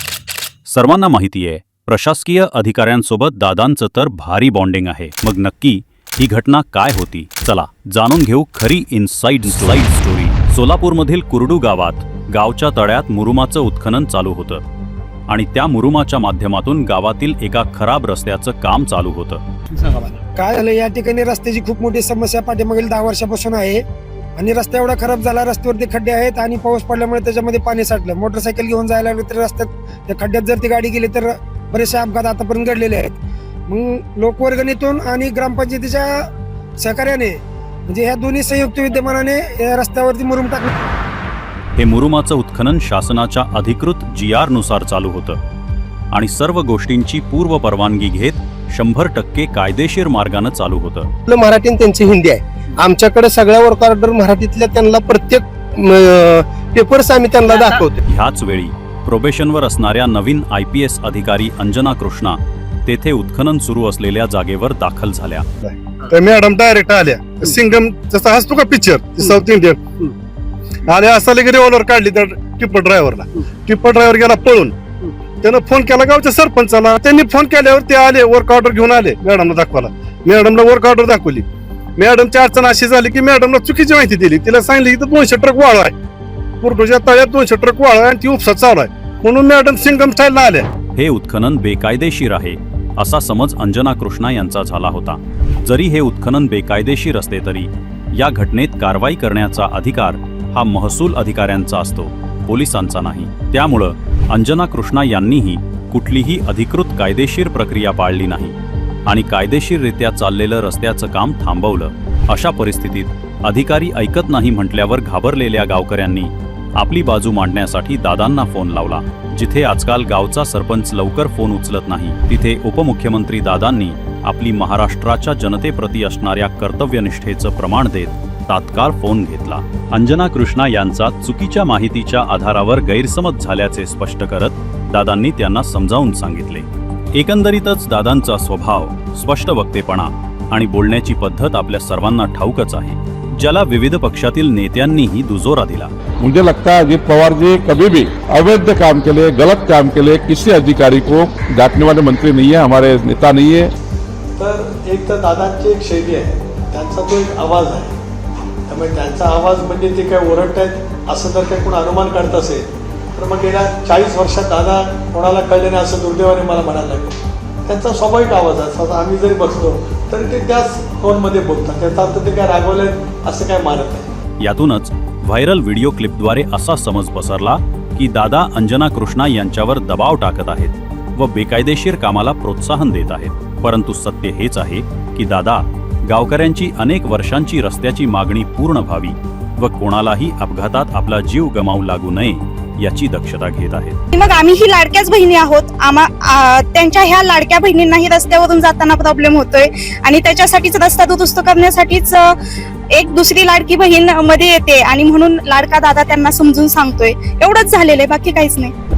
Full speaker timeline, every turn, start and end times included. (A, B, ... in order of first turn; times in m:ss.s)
0:00.7-0:14.6 A
0:15.3-0:19.4 A
0:19.8-0:23.8 B
0:24.4-0:33.2 B
0:33.7-0:36.3 B
0:36.8-0:40.7 B
0:41.8-0:45.4 A
0:46.1-0:51.1 A
0:51.3-0:58.0 C
0:58.1-1:05.4 A
1:05.6-1:09.8 D
1:10.9-1:14.7 D
1:15.4-1:21.4 D
1:22.0-1:25.9 D
1:26.6-1:30.7 D
1:31.0-1:48.5 A
1:49.1-2:25.9 A
2:26.2-2:33.7 E
2:34.4-2:38.0 F
2:38.7-2:54.1 F
2:54.4-3:14.0 A
3:14.1-3:22.4 G
3:22.9-3:28.7 G